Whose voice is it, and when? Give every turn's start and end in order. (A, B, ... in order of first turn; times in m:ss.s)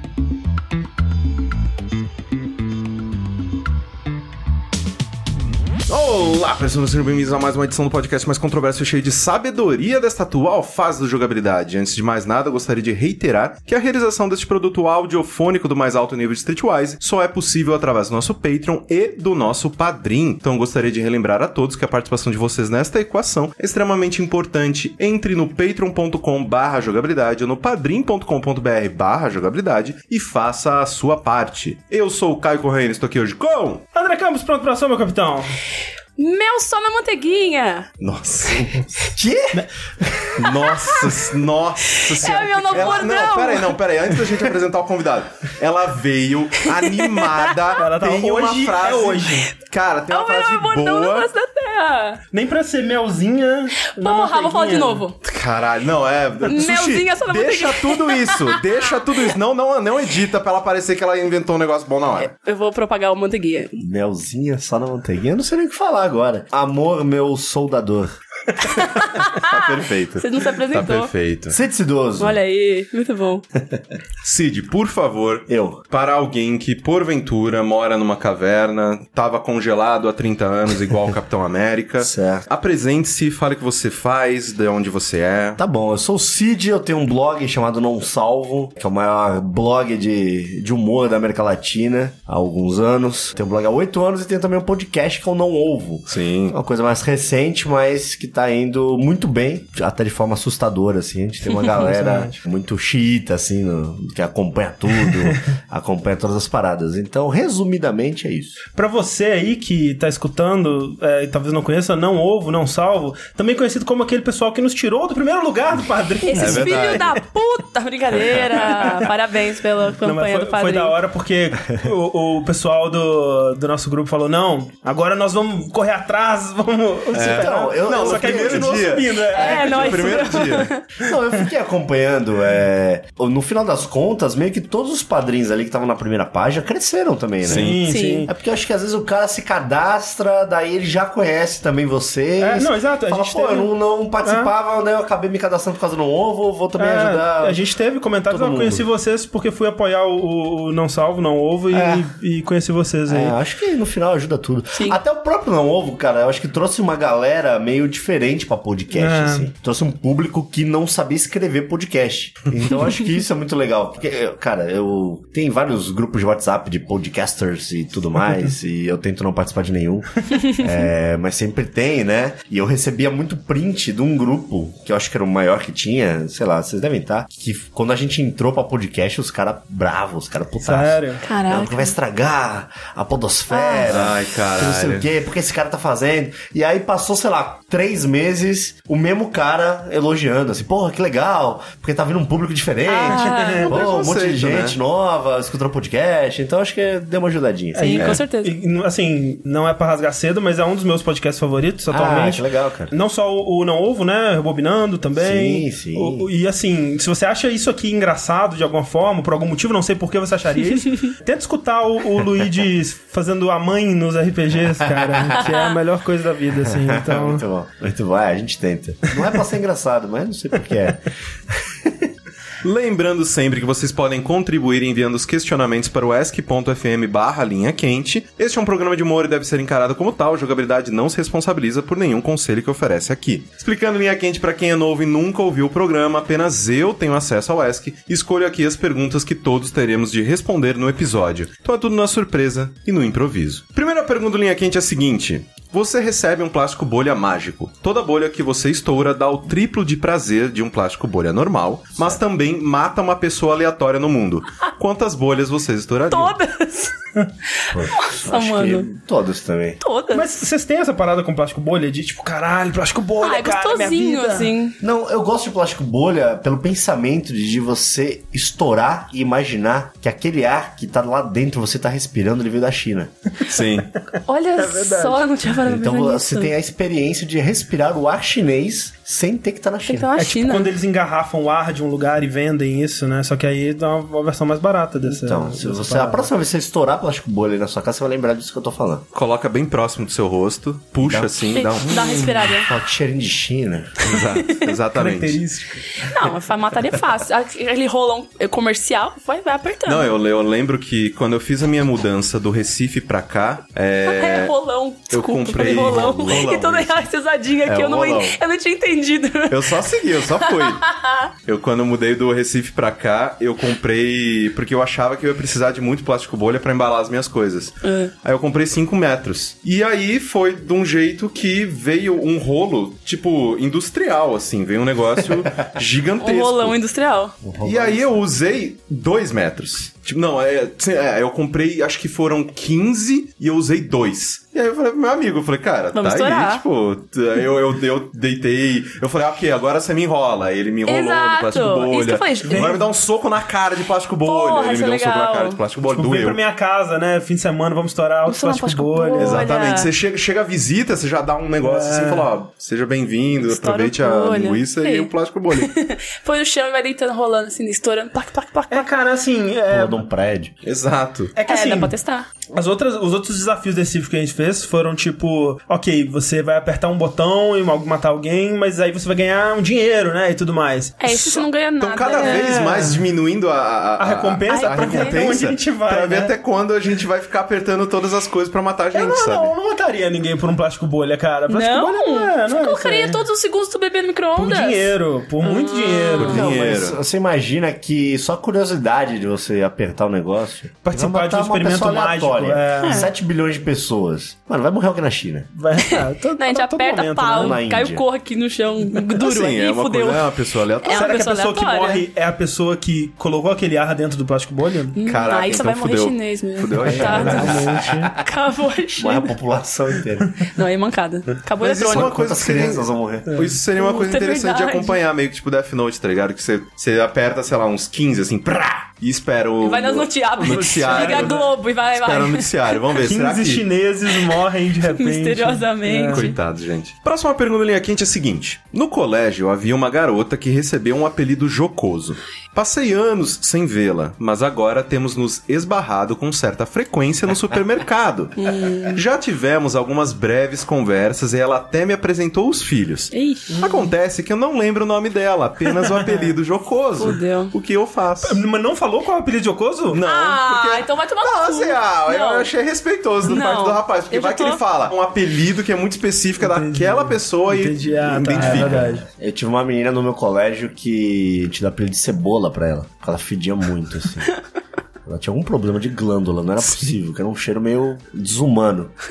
0:05.9-0:33.9 A
0:33.9-0:35.6 B
0:36.2-0:37.9 C
0:38.0-0:39.3 A
0:39.2-0:39.5 D
0:40.4-0:51.3 A
0:42.0-0:43.8 C
0:46.8-0:47.5 C
0:47.8-0:49.5 B
0:50.1-0:52.2 C
0:52.3-0:55.0 B
0:53.9-0:55.2 C
0:55.2-1:02.3 A
0:56.4-0:58.6 C
1:02.2-1:03.8 C
1:03.8-1:08.1 D
1:08.6-1:11.1 C
1:09.2-1:11.6 A
1:11.5-1:12.4 D
1:12.2-1:13.4 C
1:14.2-1:25.6 A
1:15.5-1:15.8 D
1:22.0-1:22.4 D
1:25.6-1:48.6 D
1:36.1-1:36.6 A
1:41.7-1:42.4 B
1:48.7-1:57.1 B
1:56.2-2:01.0 C
1:56.4-1:57.2 A
1:58.7-1:59.1 B
2:00.0-2:10.6 B
2:07.1-2:10.7 A
2:07.1-2:08.8 D
2:09.3-2:10.8 C
2:11.0-2:27.6 D
2:17.4-2:17.8 A
2:17.5-2:18.3 B
2:17.8-2:18.3 C
2:22.4-2:23.7 B
2:24.2-2:24.5 B
2:26.8-2:33.3 B
2:28.3-2:28.8 D
2:31.7-2:32.1 D
2:33.1-3:17.9 D
2:38.9-2:39.5 B
3:00.7-3:01.2 B
3:01.2-3:01.9 C
3:03.5-3:04.0 C
3:03.9-3:05.1 A
3:12.8-3:13.7 C
3:13.0-3:13.7 B
3:13.6-3:14.8 A
3:17.8-3:18.5 C
3:17.8-3:37.4 B
3:21.9-3:22.9 D
3:25.2-3:26.3 D
3:35.1-3:35.3 D
3:35.4-3:35.8 C
3:36.6-3:42.1 D
3:42.6-4:16.4 A
4:16.1-4:16.9 C
4:17.5-4:18.9 C
4:17.7-4:19.8 D
4:19.8-4:20.3 C
4:20.1-4:24.5 B
4:23.2-4:24.7 C
4:24.8-4:33.1 D
4:33.4-4:33.9 A
4:34.1-4:35.2 B
4:34.2-4:36.5 C
4:35.6-4:40.1 D
4:39.8-4:40.7 C
4:40.2-4:46.3 B
4:45.2-4:49.0 D
4:49.1-4:52.0 A
4:51.0-4:54.2 D
4:51.5-4:52.7 C
4:54.0-4:55.4 A
4:54.4-4:54.7 C
4:54.9-4:56.1 B
4:56.0-5:00.1 C
4:59.8-5:04.5 A
5:04.0-5:11.3 C
5:05.1-5:07.0 A
5:05.6-5:06.5 D
5:07.6-5:08.4 A
5:09.5-5:10.8 A
5:11.4-5:26.8 A
5:17.8-5:18.1 C
5:26.2-5:27.3 C
5:27.4-5:28.2 D
5:27.6-5:46.4 A
5:35.9-5:36.6 C
5:40.9-5:42.8 C
5:42.5-5:42.8 B
5:44.2-5:45.6 C
5:45.8-5:49.4 B
5:48.2-5:49.9 C
5:49.2-5:55.7 A
5:51.6-5:52.3 B
5:53.4-5:58.9 C
5:58.7-6:00.0 B
5:59.7-6:00.5 D
6:00.6-6:01.3 A
6:01.3-6:01.9 B
6:01.4-6:02.3 C
6:02.5-6:11.4 B
6:11.0-6:12.5 C
6:11.8-6:19.5 A
6:12.1-6:13.1 B
6:14.0-6:16.3 B
6:14.5-6:15.2 C
6:18.9-6:23.2 B
6:21.5-6:26.4 C
6:24.4-6:26.5 B
6:26.2-6:27.0 A
6:26.2-6:35.5 D
6:30.8-6:33.1 B
6:32.8-6:33.1 C
6:35.6-6:37.6 B
6:35.9-6:42.0 C
6:37.3-6:38.0 D
6:39.2-6:41.2 A
6:40.9-6:45.0 B
6:44.9-6:49.3 C
6:45.0-6:47.8 A
6:46.8-6:48.1 B
6:46.8-6:48.3 D
6:49.0-6:50.4 D
6:50.4-6:52.5 C
6:51.6-6:53.4 D
6:51.6-7:03.6 A
6:53.8-6:55.0 C
6:59.6-7:02.8 C
7:00.4-7:01.4 B
7:03.0-7:06.2 B
7:04.2-7:06.3 C
7:06.1-7:28.4 A
7:18.4-7:19.0 C
7:23.1-7:23.6 C
7:23.5-7:23.9 B
7:26.0-7:26.3 B
7:27.0-7:27.5 C
7:28.2-7:30.0 B
7:29.9-7:39.0 A
7:30.0-7:32.5 C
7:33.2-7:34.6 C
7:36.4-7:39.0 B
7:38.4-7:44.3 D
7:45.0-7:48.9 D